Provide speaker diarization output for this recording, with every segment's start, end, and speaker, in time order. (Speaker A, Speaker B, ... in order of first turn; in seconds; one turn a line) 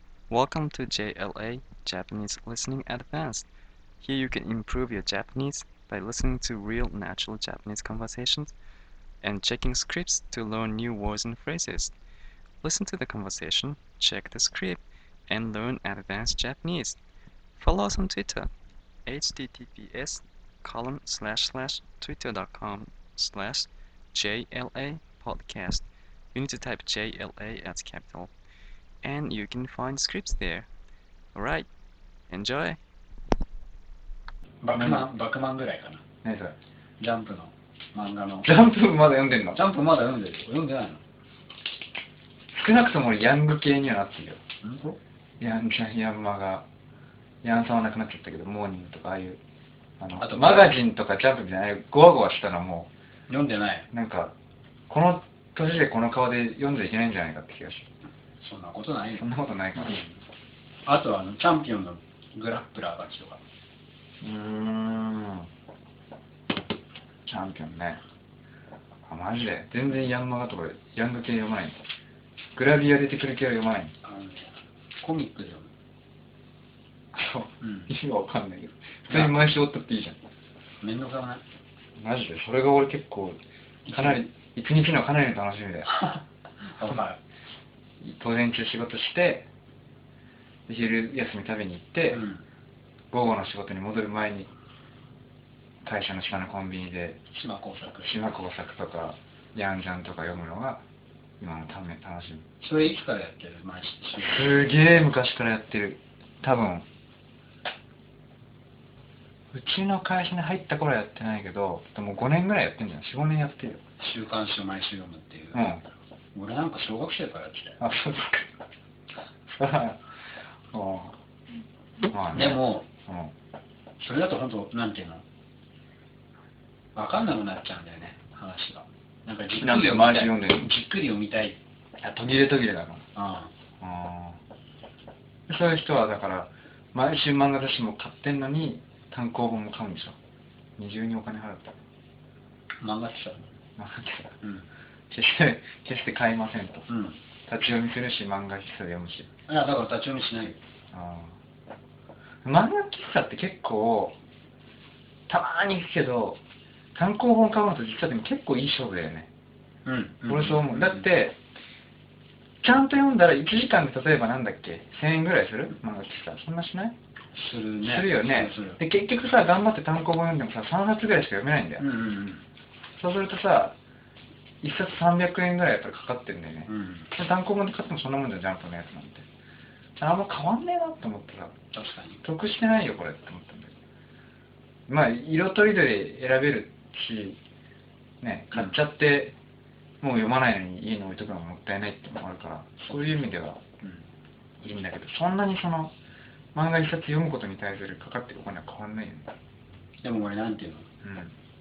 Speaker A: 0.3-3.5
Speaker B: 4.0-8.5
Speaker A: 4.1-6.6
Speaker A: 7.2-8.2
Speaker B: 9.2-11.9
Speaker A: 9.3-11.5
Speaker B: 12.6-13.2
Speaker A: 12.7-14.5
Speaker B: 13.8-14.8
Speaker B: 15.3-17.0
Speaker A: 15.4-16.7
Speaker B: 17.6-18.4
Speaker B: 19.1-25.8
Speaker A: 19.1-19.9
Speaker A: 21.4-22.2
Speaker A: 24.3-25.4
Speaker B: 26.4-28.3
Speaker B: 29.0-30.7
Speaker B: 31.4-31.7
Speaker B: 32.3-32.8
Speaker C: 34.6-36.0
Speaker A: 34.8-35.1
Speaker A: 36.2-36.6
Speaker C: 37.0-38.5
Speaker A: 38.5-39.6
Speaker C: 39.5-41.0
Speaker A: 42.5-44.4
Speaker C: 44.6-45.0
Speaker A: 45.4-46.7
Speaker A: 47.4-49.4
Speaker A: 50.0-52.9
Speaker C: 50.2-50.7
Speaker C: 53.3-53.9
Speaker A: 53.9-54.4
Speaker A: 54.9-57.9
Speaker C: 58.4-59.2
Speaker A: 59.1-60.0
Speaker C: 59.8-60.1
Speaker C: 60.9-63.4
Speaker A: 64.2-65.5
Speaker A: 67.3-68.0
Speaker A: 69.1-71.8
Speaker A: 72.6-73.9
Speaker C: 74.0-75.7
Speaker A: 77.2-80.2
Speaker C: 77.6-77.9
Speaker C: 79.1-79.4
Speaker C: 80.8-81.4
Speaker A: 82.0-83.4
Speaker C: 83.9-84.3
Speaker A: 83.9-85.9
Speaker C: 85.9-87.2
Speaker A: 88.0-89.5
Speaker A: 90.7-92.2
Speaker C: 92.1-92.4
Speaker A: 93.1-94.5
Speaker A: 95.8-97.2
Speaker C: 97.3-98.2
Speaker A: 98.0-100.8
Speaker A: 101.4-102.5
Speaker C: 102.6-105.0
Speaker A: 104.2-106.9
Speaker A: 109.5-113.8
Speaker C: 114.0-115.7
Speaker A: 115.5-115.8
Speaker C: 116.3-117.8
Speaker A: 117.8-118.5
Speaker A: 119.5-120.0
Speaker A: 120.7-121.2
Speaker A: 122.1-123.3
Speaker C: 122.3-122.9
Speaker C: 124.0-125.2
Speaker C: 127.0-131.6
Speaker A: 129.6-130.7
Speaker A: 132.0-133.1
Speaker C: 133.2-133.5
Speaker A: 133.8-134.4
Speaker A: 135.5-140.2
Speaker A: 140.8-141.8
Speaker C: 142.8-143.6
Speaker A: 143.8-144.4
Speaker C: 144.4-144.7
Speaker A: 145.1-146.9
Speaker C: 146.9-147.2
Speaker A: 147.5-149.3
Speaker C: 149.5-150.6
Speaker A: 150.9-151.4
Speaker A: 152.4-154.2
Speaker A: 155.3-156.4
Speaker A: 156.9-159.3
Speaker C: 159.9-161.1
Speaker A: 160.3-161.4
Speaker A: 162.6-166.9
Speaker C: 167.3-168.8
Speaker A: 167.9-171.9
Speaker C: 171.8-172.4
Speaker A: 173.0-173.8
Speaker A: 174.6-179.3
Speaker C: 176.7-177.1
Speaker A: 180.0-181.6
Speaker C: 181.7-182.2
Speaker A: 182.2-183.7
Speaker A: 184.9-187.4
Speaker A: 188.2-189.4
Speaker A: 190.0-193.7
Speaker A: 194.6-195.9
Speaker A: 196.5-199.3
Speaker C: 200.0-200.9
Speaker A: 201.0-201.3